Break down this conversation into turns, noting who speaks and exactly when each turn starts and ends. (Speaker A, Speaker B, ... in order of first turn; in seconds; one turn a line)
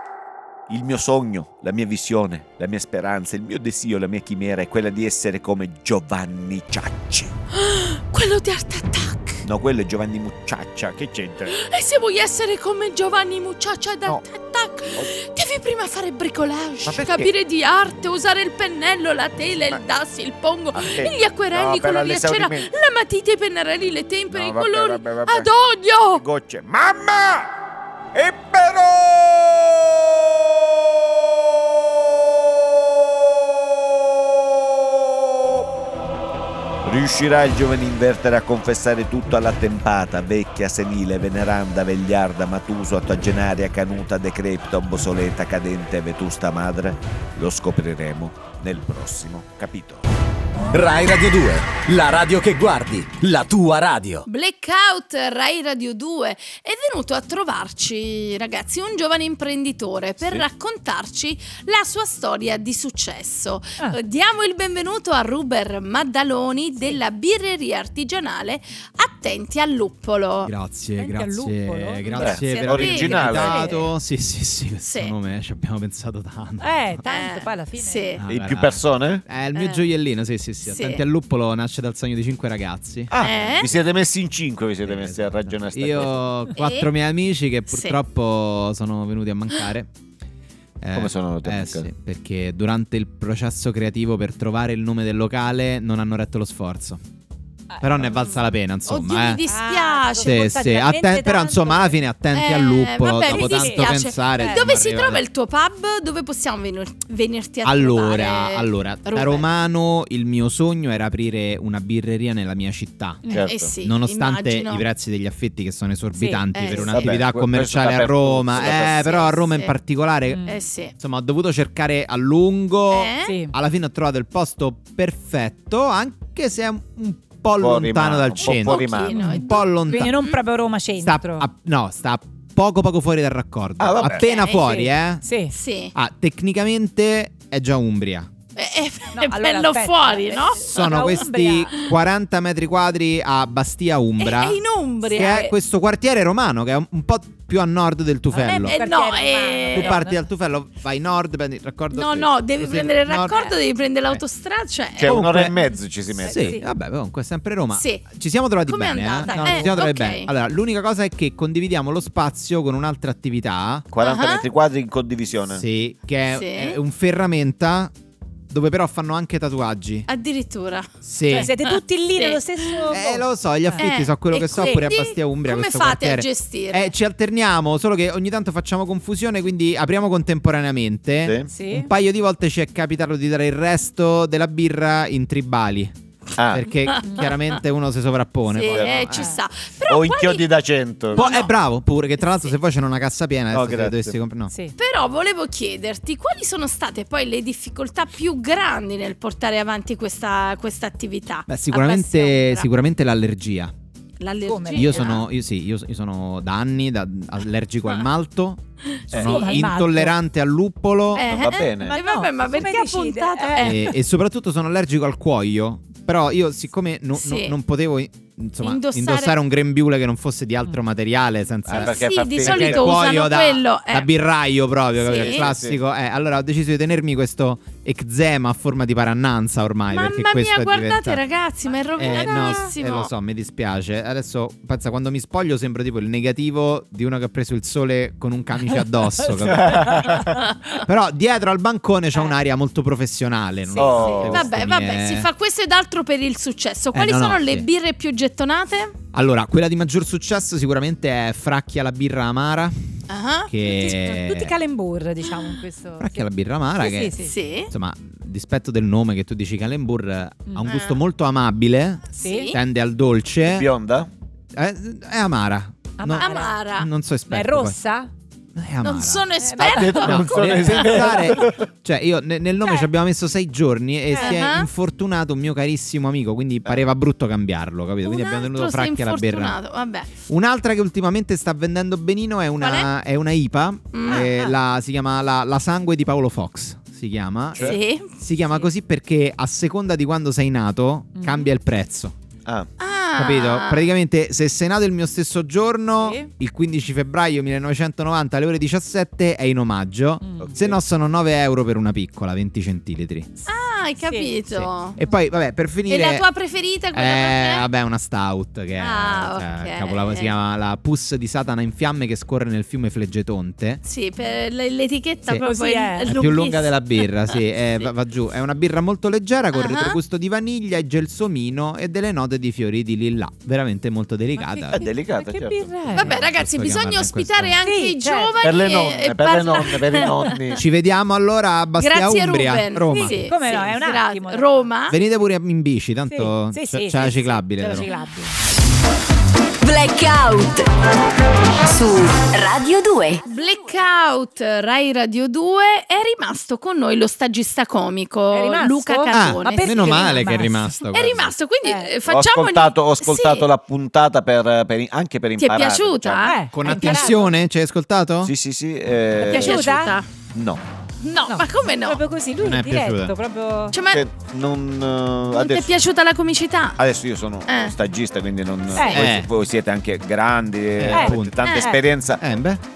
Speaker A: 0.7-7.3
Speaker B: 7.5-9.5
Speaker A: 9.4-11.6
Speaker B: 11.5-26.2
Speaker A: 16.9-17.3
Speaker A: 20.7-22.7
Speaker A: 24.3-25.5
Speaker A: 26.1-27.5
Speaker A: 28.1-30.9
Speaker A: 36.8-50.0
Speaker C: 50.7-54.3
Speaker B: 54.3-70.5
Speaker D: 70.5-77.0
Speaker E: 71.0-73.9
Speaker B: 72.1-73.7
Speaker A: 72.1-73.7
Speaker B: 74.8-75.1
Speaker E: 76.6-78.2
Speaker B: 77.0-78.2
Speaker D: 78.2-83.1
Speaker A: 78.3-79.2
Speaker B: 79.5-79.9
Speaker B: 80.6-81.0
Speaker A: 83.1-86.4
Speaker B: 83.2-83.7
Speaker D: 84.8-89.9
Speaker B: 86.5-86.9
Speaker B: 87.7-88.0
Speaker D: 90.8-97.0
Speaker A: 90.9-91.9
Speaker E: 97.7-98.2
Speaker D: 97.8-99.4
Speaker B: 98.8-100.5
Speaker E: 99.5-102.0
Speaker D: 100.2-105.2
Speaker B: 102.3-109.5
Speaker E: 103.2-104.7
Speaker D: 107.7-120.5
Speaker A: 113.3-113.7
Speaker B: 113.5-114.8
Speaker E: 116.2-116.5
Speaker B: 116.5-117.2
Speaker A: 116.7-119.1
Speaker B: 118.6-119.8
Speaker E: 120.3-120.6
Speaker B: 120.5-120.9
Speaker D: 121.0-130.2
Speaker B: 122.9-123.4
Speaker E: 123.2-123.5
Speaker A: 127.6-129.1
Speaker B: 128.4-130.4
Speaker E: 129.1-131.5
Speaker D: 131.0-135.2
Speaker A: 133.8-134.5
Speaker B: 134.0-134.9
Speaker E: 135.2-135.6
Speaker B: 135.5-135.9
Speaker D: 135.9-138.3
Speaker B: 138.6-141.3
Speaker E: 139.1-141.8
Speaker D: 140.7-148.8
Speaker B: 144.2-145.5
Speaker E: 145.1-145.6
Speaker E: 148.3-150.2
Speaker B: 148.6-150.0
Speaker D: 149.7-153.6
Speaker B: 151.9-155.2
Speaker A: 155.0-156.6
Speaker D: 155.1-155.6
Speaker E: 156.2-156.7
Speaker D: 156.3-163.9
Speaker B: 157.7-158.1
Speaker B: 158.7-160.3
Speaker E: 159.2-159.8
Speaker A: 163.9-165.7
Speaker B: 164.0-164.4
Speaker D: 165.5-167.9
Speaker B: 166.3-166.8
Speaker D: 168.5-170.1
Speaker B: 170.1-173.0
Speaker D: 171.0-171.5
Speaker E: 171.3-173.8
Speaker D: 172.9-189.3
Speaker B: 173.8-176.9
Speaker E: 174.5-174.9
Speaker A: 181.2-181.5
Speaker E: 181.5-181.9
Speaker A: 186.4-186.7
Speaker B: 186.9-187.6
Speaker E: 187.0-187.3
Speaker B: 188.5-190.5
Speaker A: 188.7-189.2
Speaker A: 189.9-191.4
Speaker B: 191.1-191.5
Speaker D: 191.2-194.5
Speaker B: 192.2-192.5
Speaker A: 193.5-194.2
Speaker E: 194.5-194.8
Speaker B: 194.8-202.7
Speaker D: 201.5-203.7
Speaker B: 204.2-205.3
Speaker E: 204.4-205.1
Speaker D: 204.8-211.4
Speaker B: 209.0-209.7
Speaker A: 209.1-209.5
Speaker E: 209.2-210.2
Speaker B: 211.2-213.9
Speaker A: 211.2-212.0
Speaker E: 211.8-213.9
Speaker D: 213.6-231.2
Speaker B: 217.2-217.6
Speaker B: 218.6-219.3
Speaker A: 221.7-223.1
Speaker B: 221.7-224.1
Speaker B: 225.0-225.5
Speaker A: 225.1-225.8
Speaker B: 229.9-233.1
Speaker D: 232.0-240.1
Speaker E: 232.1-232.7
Speaker E: 239.2-240.3
Speaker A: 239.4-240.3
Speaker B: 240.4-240.8
Speaker D: 240.8-245.3
Speaker B: 243.7-248.9
Speaker A: 243.8-244.5
Speaker D: 246.9-247.7
Speaker D: 249.1-252.8
Speaker B: 253.1-254.0
Speaker D: 253.5-254.6
Speaker E: 253.6-256.3
Speaker D: 256.0-257.1
Speaker E: 256.8-257.3
Speaker B: 257.2-257.7
Speaker D: 257.7-263.7
Speaker B: 260.7-261.0
Speaker B: 262.1-262.6
Speaker E: 262.2-262.5
Speaker A: 263.4-264.1
Speaker D: 264.5-267.8
Speaker E: 266.0-266.6
Speaker B: 266.2-266.9
Speaker E: 267.3-268.1
Speaker D: 268.6-279.6
Speaker B: 268.8-271.4
Speaker E: 269.4-270.1
Speaker A: 269.6-271.7
Speaker E: 274.1-274.4
Speaker B: 274.1-274.7
Speaker B: 278.0-280.1
Speaker D: 280.3-292.2
Speaker B: 282.6-282.9
Speaker B: 283.9-284.3
Speaker E: 284.1-284.6
Speaker A: 287.5-287.8
Speaker B: 287.6-288.1
Speaker E: 291.2-291.5
Speaker B: 292.8-293.9
Speaker D: 293.2-303.3
Speaker E: 296.0-296.3
Speaker E: 300.2-300.6
Speaker A: 300.4-300.8
Speaker B: 303.5-305.0
Speaker E: 304.0-304.4
Speaker D: 304.5-306.2
Speaker B: 305.9-307.7
Speaker D: 306.9-313.8
Speaker B: 308.8-310.3
Speaker B: 313.8-317.9
Speaker E: 315.3-316.1
Speaker D: 316.1-324.9
Speaker B: 319.5-320.0
Speaker E: 324.4-326.1
Speaker A: 324.7-325.7
Speaker D: 325.9-327.6
Speaker B: 325.9-330.6
Speaker E: 327.6-328.3
Speaker A: 328.4-330.6
Speaker E: 330.0-330.3
Speaker D: 330.6-333.2
Speaker B: 331.8-335.0
Speaker E: 332.9-334.7
Speaker D: 334.9-337.9
Speaker E: 336.1-338.4
Speaker F: 339.6-340.7
Speaker F: 341.6-343.3
Speaker B: 343.3-353.5
Speaker E: 348.3-350.7
Speaker D: 349.1-351.3
Speaker E: 351.6-351.9
Speaker A: 352.1-356.3
Speaker B: 355.4-357.2
Speaker E: 356.2-357.3
Speaker D: 356.5-358.3
Speaker A: 358.2-359.7
Speaker E: 359.2-360.0
Speaker B: 359.2-360.1
Speaker A: 360.3-360.6
Speaker B: 361.0-362.0
Speaker E: 361.3-363.8
Speaker D: 362.4-363.1
Speaker B: 363.7-364.0
Speaker A: 363.9-365.7
Speaker B: 365.3-366.8
Speaker A: 366.8-372.2
Speaker B: 367.5-367.8
Speaker E: 368.7-369.0
Speaker D: 368.9-369.3
Speaker D: 370.8-371.4
Speaker E: 370.9-371.8
Speaker B: 371.4-371.7
Speaker D: 372.2-372.6